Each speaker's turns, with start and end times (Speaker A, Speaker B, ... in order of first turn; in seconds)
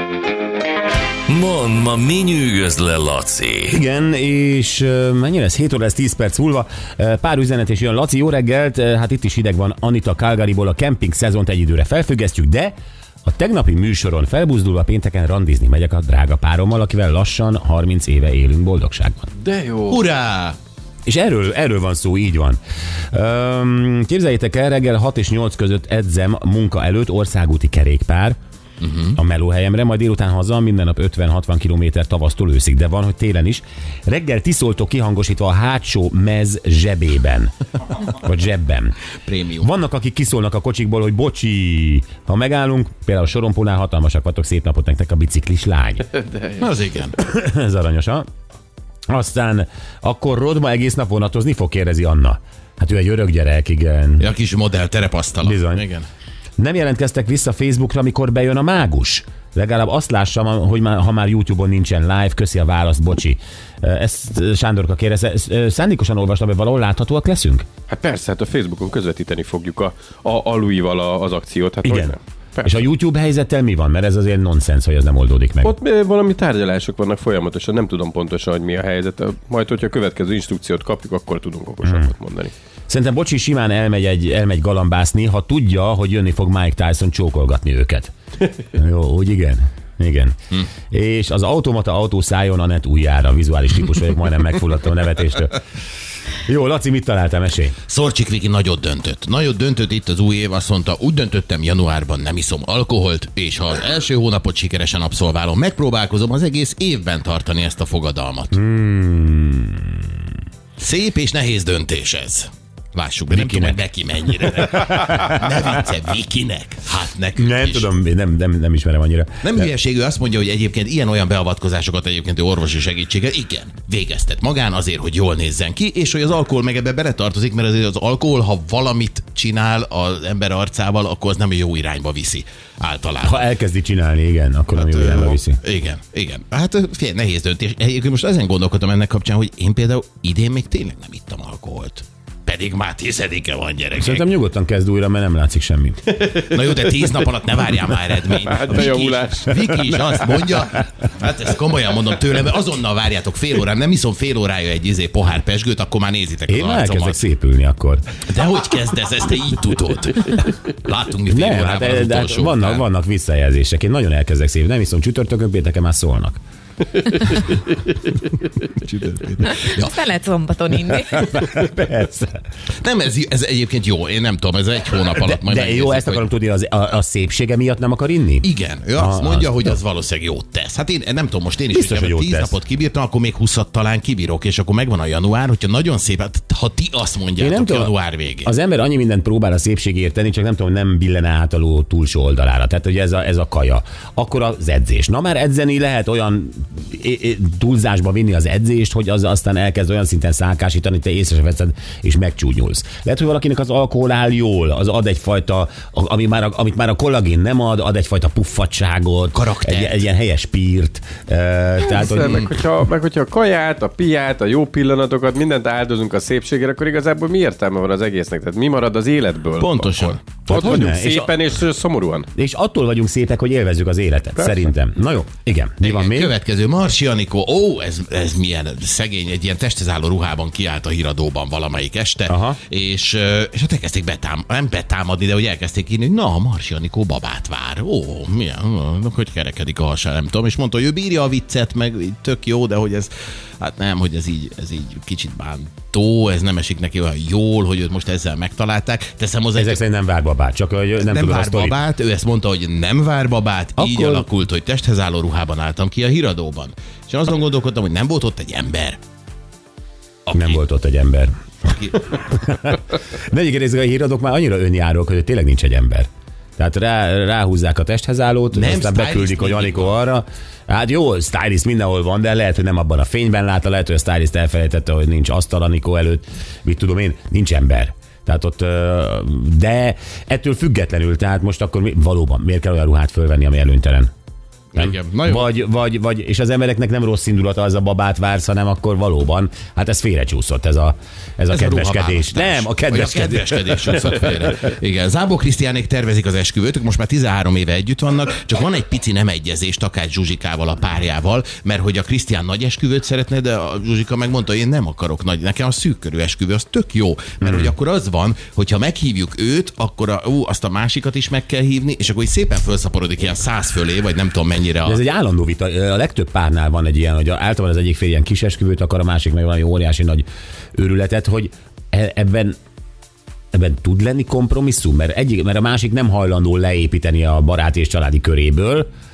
Speaker A: 1.3-3.8
Speaker B: 3.7-19.3, 21.1-22.6, 23.1-28.4, 29.1-39.0, 39.6-46.0, 47.2-48.2, 49.1-54.3, 55.4-55.8, 56.6-67.6, 71.8-75.7, 81.8-82.1, 82.9-88.1, 88.7-90.3, 90.9-95.6, 96.3-97.8, 108.5-110.3, 113.3-113.8, 114.4-115.6, 117.3-119.7, 133.2-135.6, 144.0-146.0, 149.7-150.8, 156.5-158.1, 161.3-166.4, 171.1-172.4, 175.2-179.8, 181.7-182.5, 187.4-212.4, 220.5-221.3, 222.3-226.3, 232.3-232.6, 249.5-251.8, 253.8-254.2, 260.3-284.1, 284.8-294.2, 307.4-307.7, 314.8-322.6, 323.5-328.9
Speaker C: 19.4-20.0, 67.9-72.8, 75.6-82.5, 148.4-149.6, 211.8-222.3
Speaker D: 19.9-20.6, 28.8-29.1, 39.2-39.7, 46.6-47.2, 54.2-56.1, 97.9-108.6, 110.8-117.9, 119.4-133.5, 134.7-144.2, 146.2-157.2, 158.2-162.8, 168.7-169.9, 172.8-176.3, 178.4-188.5, 209.3-210.1, 219.6-220.4, 225.8-249.8, 251.0-259.0, 260.3-260.6, 261.6-262.1, 268.5-270.0, 284.7-285.5, 291.5-315.0
Speaker E: 169.4-171.5